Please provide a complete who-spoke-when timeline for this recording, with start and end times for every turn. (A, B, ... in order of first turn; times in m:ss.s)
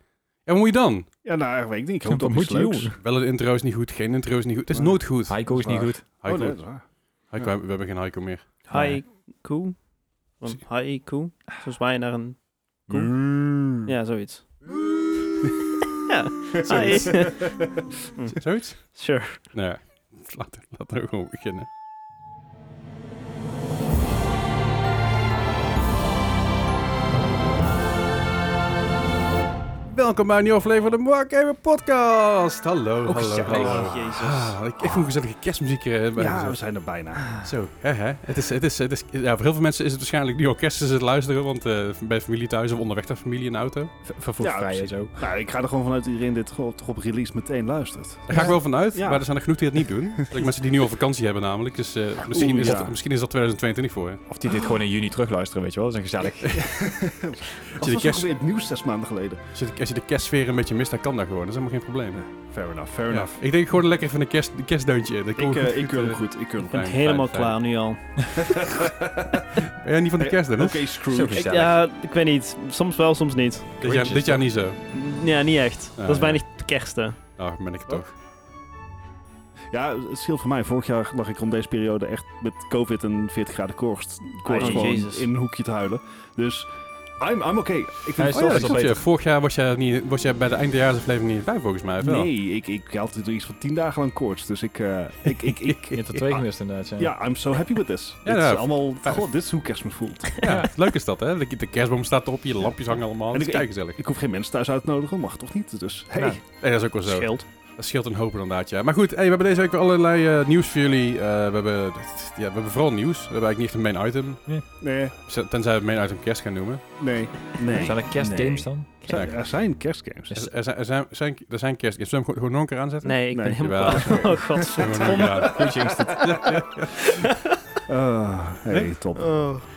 0:00.4-0:01.1 A
0:01.2-0:03.0 B
0:02.0-0:03.0 C
0:03.0-0:05.7 A
0:04.7-0:06.8 B
0:05.3-0:06.0 C
0:06.2-0:06.6 A
0:07.3-0:08.4 A
0:08.7-0:09.8 D
0:08.7-0:09.0 C
0:10.4-0:13.1 D
0:12.9-0:13.9 B
0:13.7-0:14.7 D
0:15.9-0:19.4 D
0:16.5-0:17.7 B
0:18.4-0:19.0 A
0:19.5-0:21.7 A
0:29.9-0:36.6 A
0:33.0-0:34.6 D
0:33.5-0:33.9 B
0:36.2-0:37.4 B
0:37.4-0:43.9 A
0:44.0-0:45.2 C
0:44.4-0:49.3 B
0:48.3-0:54.2 A
0:50.2-0:50.4 B
0:52.2-0:53.0 B
0:54.3-0:56.8 C
0:56.5-0:59.4 B
0:57.6-0:58.3 A
0:59.5-1:02.2 A
1:02.2-1:03.4 B
1:03.1-1:07.5 A
1:05.4-1:06.8 B
1:06.7-1:08.4 D
1:08.3-1:09.5 B
1:09.5-1:10.9 A
1:10.2-1:11.4 B
1:11.1-1:11.8 C
1:11.3-1:14.1 D
1:13.8-1:14.8 A
1:13.9-1:14.4 C
1:14.9-1:17.2 D
1:16.0-1:16.4 A
1:17.4-1:18.1 A
1:19.7-1:28.8 B
1:24.4-1:25.0 C
1:24.5-1:25.3 D
1:28.2-1:29.0 C
1:28.3-1:32.3 A
1:32.0-1:40.4 B
1:35.9-1:37.1 C
1:38.2-1:39.2 A
1:40.4-1:44.0 A
1:43.3-1:46.4 B
1:46.6-1:54.4 A
1:47.0-1:47.4 D
1:54.8-1:55.2 B
1:55.2-1:56.8 A
1:57.0-2:00.3 B
1:57.7-1:58.9 C
1:59.1-1:59.4 A
2:00.3-2:07.2 A
2:03.0-2:05.7 D
2:03.3-2:05.3 B
2:05.3-2:06.6 C
2:07.0-2:07.4 D
2:07.9-2:09.3 B
2:09.2-2:09.7 D